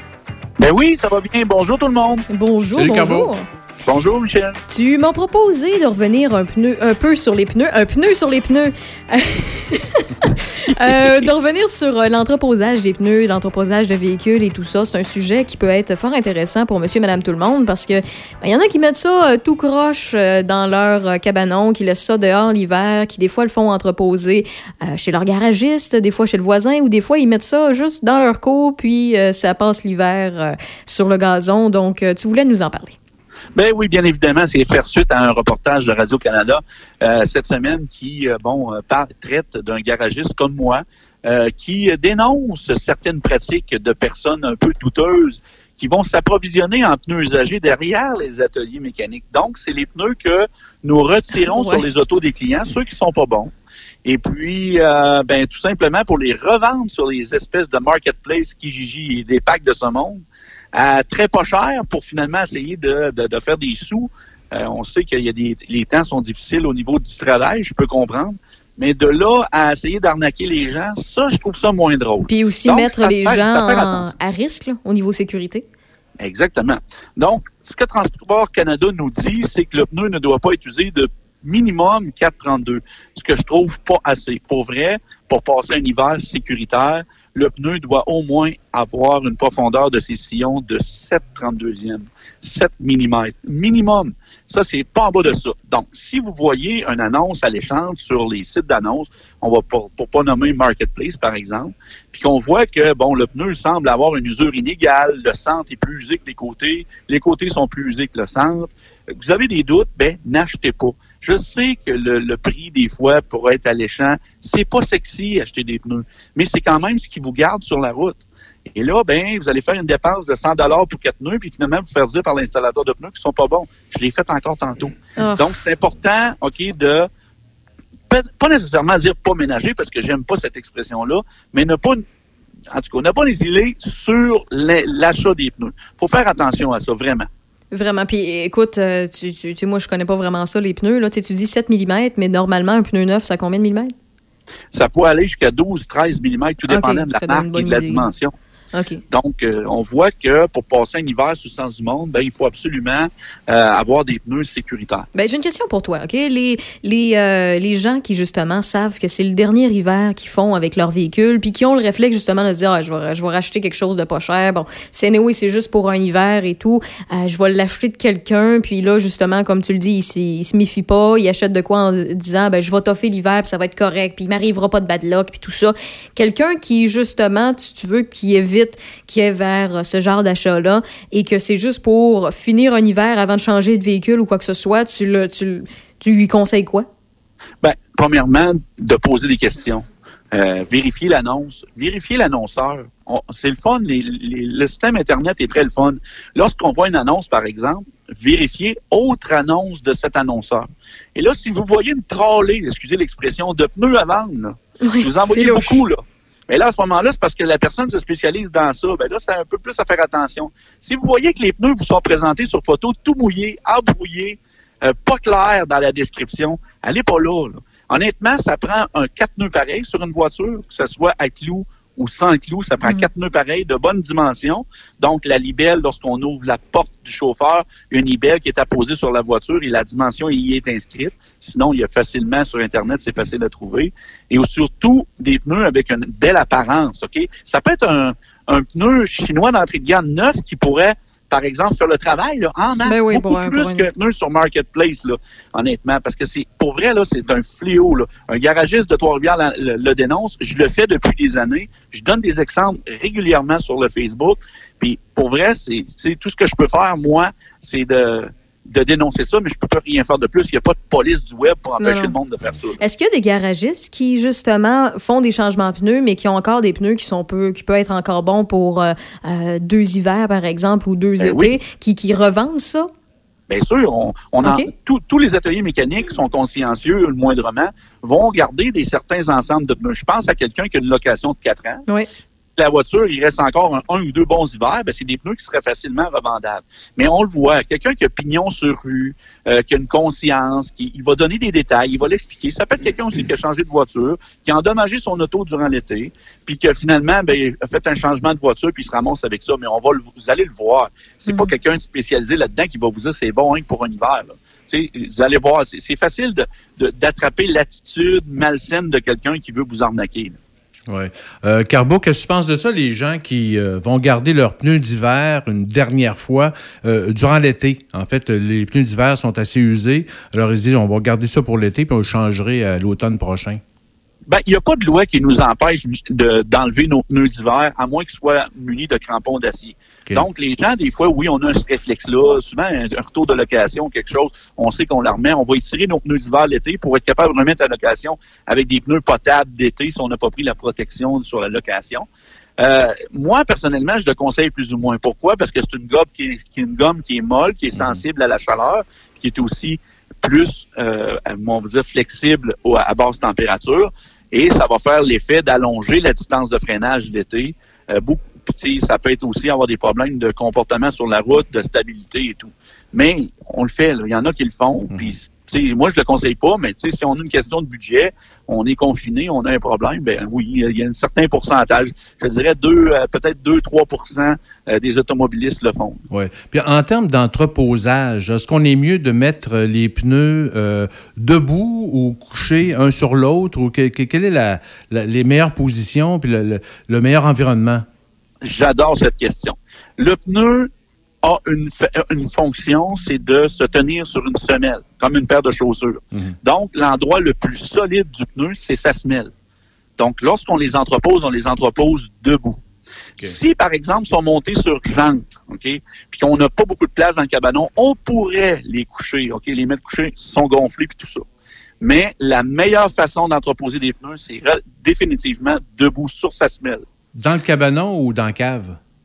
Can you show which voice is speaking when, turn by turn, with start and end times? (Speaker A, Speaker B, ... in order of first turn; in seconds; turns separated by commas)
Speaker A: 0.6-2.2, Speaker B: 2.3-3.5, Speaker C: 2.7-3.3, Speaker A: 3.9-4.6, Speaker B: 4.7-33.0, Speaker A: 33.5-53.5, Speaker B: 51.4-51.8, Speaker A: 54.0-60.2, Speaker A: 60.7-74.1, Speaker B: 72.3-75.6, Speaker A: 76.2-118.2, Speaker A: 118.8-127.1, Speaker B: 125.2-125.5, Speaker A: 128.1-132.0, Speaker A: 132.7-137.3, Speaker B: 137.7-143.9, Speaker A: 144.7-148.3, Speaker B: 146.7-148.1, Speaker B: 148.7-149.0, Speaker A: 149.1-155.1, Speaker B: 155.2-186.9, Speaker A: 187.6-262.8, Speaker B: 204.8-205.8, Speaker B: 242.8-243.9, Speaker B: 261.8-262.1, Speaker B: 262.8-272.9, Speaker A: 271.2-271.5, Speaker A: 273.5-281.8, Speaker B: 274.4-274.7, Speaker A: 282.6-310.4, Speaker C: 310.9-323.6, Speaker A: 324.3-342.1, Speaker A: 342.6-376.0, Speaker C: 347.8-348.0, Speaker C: 364.9-365.1, Speaker C: 376.1-387.9, Speaker A: 388.4-390.7, Speaker A: 391.2-399.3, Speaker A: 400.0-402.6, Speaker A: 403.2-411.2, Speaker A: 411.8-416.8, Speaker C: 417.1-418.8